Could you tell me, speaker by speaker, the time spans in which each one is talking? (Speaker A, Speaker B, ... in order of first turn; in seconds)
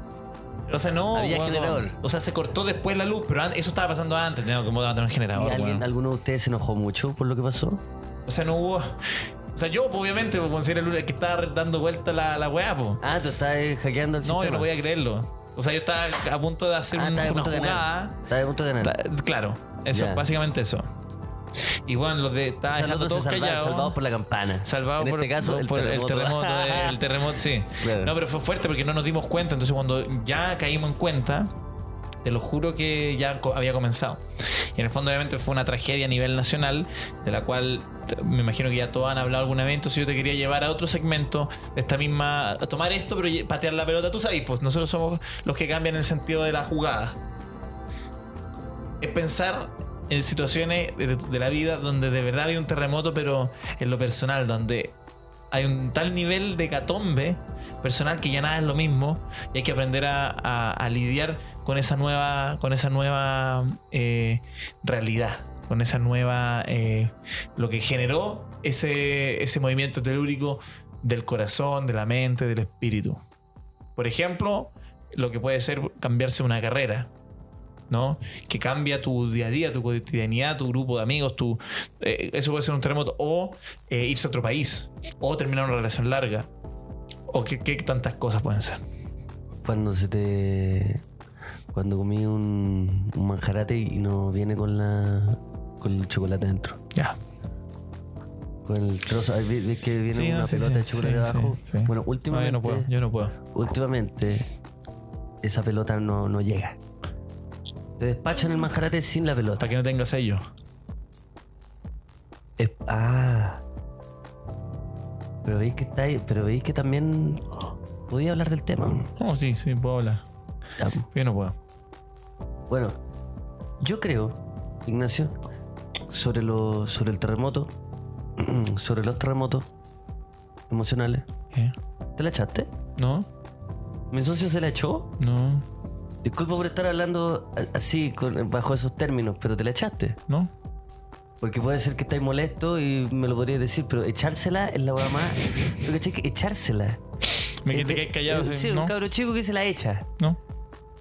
Speaker A: 0.7-5.9, 8.3-13.0, 14.2-18.2, 18.8-20.9, 21.9-24.0, 24.6-31.5, 32.2-47.2, 49.0-55.0, 55.5-73.2, 74.0-77.1, 77.9-86.5, 87.3-88.8, 100.1-103.3, 109.6-110.5, 119.2-120.2, 121.1-121.6, 133.0-133.3, 135.2-135.7, 147.7-148.9
Speaker B: 1.1-2.0, 5.3-7.8, 13.0-14.7, 16.9-18.9, 19.9-20.2, 22.7-27.0, 27.8-28.1, 89.6-91.0, 91.7-96.8, 98.7-104.5, 105.4-106.8, 108.0-109.7, 112.6-113.6, 115.4-117.5, 118.1-119.1, 120.8-121.1, 122.7-123.0, 123.8-125.3, 126.1-127.7, 128.4-129.7, 130.7-131.3, 132.2-132.7, 134.1-135.1, 136.2-140.2, 141.4-147.0, 147.7-150.1